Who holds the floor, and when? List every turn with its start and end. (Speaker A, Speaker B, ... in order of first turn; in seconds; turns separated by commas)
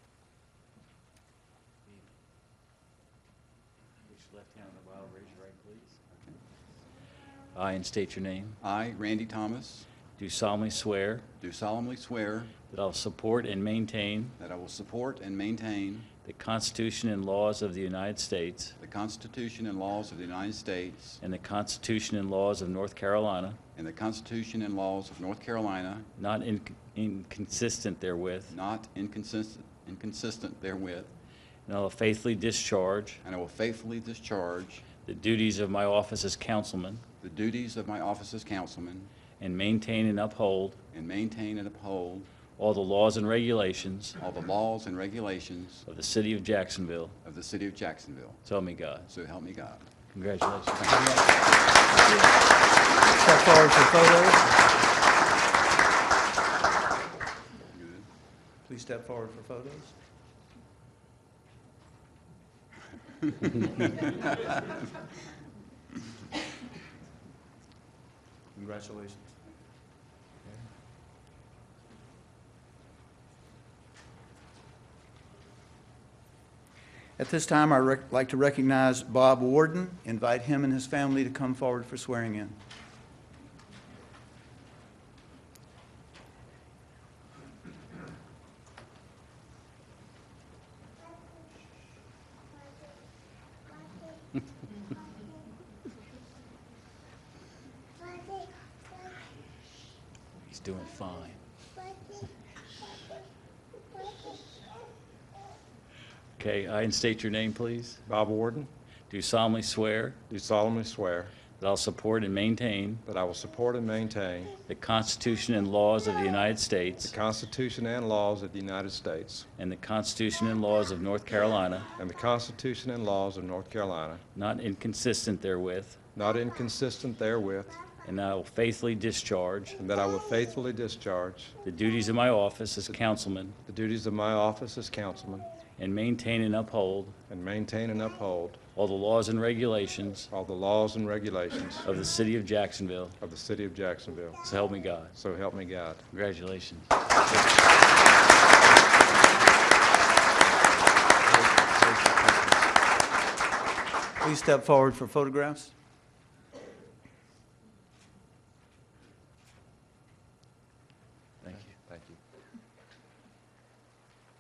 Speaker A: 4.1-6.0, Speaker A: 7.5-8.6, Speaker B: 8.6-9.9, Speaker A: 10.2-11.3, Speaker B: 11.4-12.5, Speaker A: 12.7-14.4, Speaker B: 14.4-16.1, Speaker A: 16.2-18.8, Speaker B: 18.8-21.2, Speaker A: 21.2-23.6, Speaker B: 23.8-26.1, Speaker A: 26.2-28.6, Speaker B: 28.5-31.1, Speaker A: 31.7-33.2, Speaker B: 33.2-34.9, Speaker A: 35.0-37.0, Speaker B: 37.2-39.1, Speaker A: 39.4-40.8, Speaker B: 40.9-42.3, Speaker A: 42.5-44.2, Speaker B: 44.2-45.8, Speaker A: 45.9-47.2, Speaker B: 47.2-48.4, Speaker A: 48.5-49.1, Speaker B: 49.1-49.9, Speaker A: 50.1-51.1, Speaker C: 50.9-51.3, Speaker C: 52.0-52.3, Speaker C: 53.1-54.5, Speaker B: 57.8-58.0, Speaker C: 58.7-59.9, Speaker C: 68.5-69.3, Speaker C: 77.2-82.6, Speaker A: 100.4-101.4, Speaker A: 106.4-108.0, Speaker D: 108.1-108.7, Speaker A: 109.1-110.2, Speaker D: 110.3-111.4, Speaker A: 111.5-113.0, Speaker D: 113.1-114.6, Speaker A: 114.7-117.2, Speaker D: 117.0-119.5, Speaker A: 119.6-121.9, Speaker D: 122.0-124.2, Speaker A: 124.3-126.0, Speaker D: 126.2-127.9, Speaker A: 128.0-129.8, Speaker D: 129.8-131.5, Speaker A: 131.6-133.6, Speaker D: 133.7-135.5, Speaker A: 135.8-137.2, Speaker D: 137.3-138.6, Speaker A: 138.8-140.3, Speaker D: 140.3-141.9, Speaker A: 141.8-143.2, Speaker D: 143.2-144.4, Speaker A: 144.4-145.1, Speaker D: 145.2-146.0, Speaker A: 146.1-146.9, Speaker D: 151.3-152.6, Speaker C: 154.2-155.7, Speaker D: 161.5-162.2